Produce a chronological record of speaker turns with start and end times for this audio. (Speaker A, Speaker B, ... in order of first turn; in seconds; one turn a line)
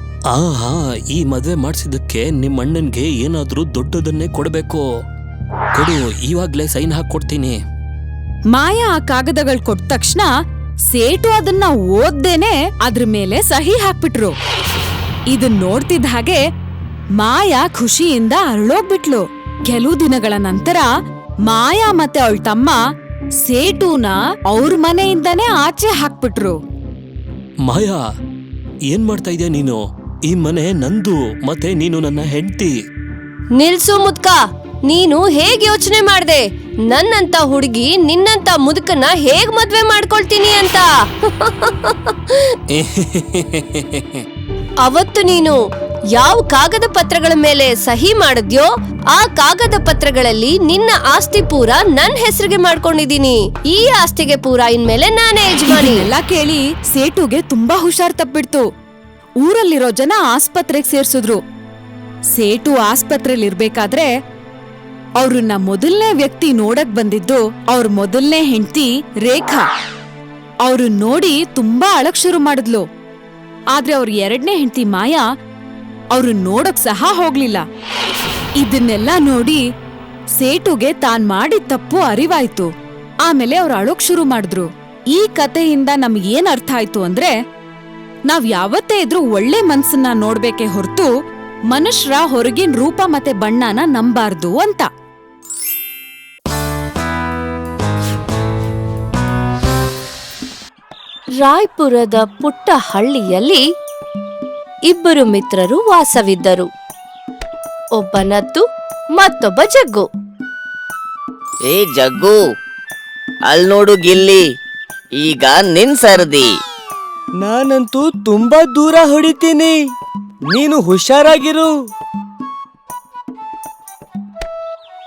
Speaker A: 0.3-4.8
Speaker A: 5.7-7.6
Speaker B: 8.5-10.3
Speaker B: 10.9-14.3
Speaker B: 15.3-16.4
Speaker B: 17.2-20.9
Speaker B: 21.5-22.8
Speaker B: 23.4-26.6
Speaker A: 27.6-28.0
Speaker A: 28.9-32.7
Speaker C: 33.6-42.5
Speaker A: 42.7-44.2
Speaker C: 44.8-45.6
Speaker C: 46.1-56.1
Speaker B: 55.6-58.6
Speaker B: 59.4-61.4
Speaker B: 62.3-64.1
Speaker B: 65.2-69.6
Speaker B: 70.6-72.8
Speaker B: 73.7-75.2
Speaker B: 76.1-77.6
Speaker B: 78.6-79.6
Speaker B: 80.4-82.7
Speaker B: 83.2-87.3
Speaker B: 88.3-91.1
Speaker B: 91.7-94.9
Speaker C: 101.4-103.6
Speaker C: 104.9-106.7
Speaker C: 108.0-108.6
Speaker C: 109.2-110.1
Speaker D: 111.7-112.4
Speaker D: 113.5-114.4
Speaker D: 115.2-116.5
Speaker E: 117.4-119.8
Speaker E: 120.5-121.7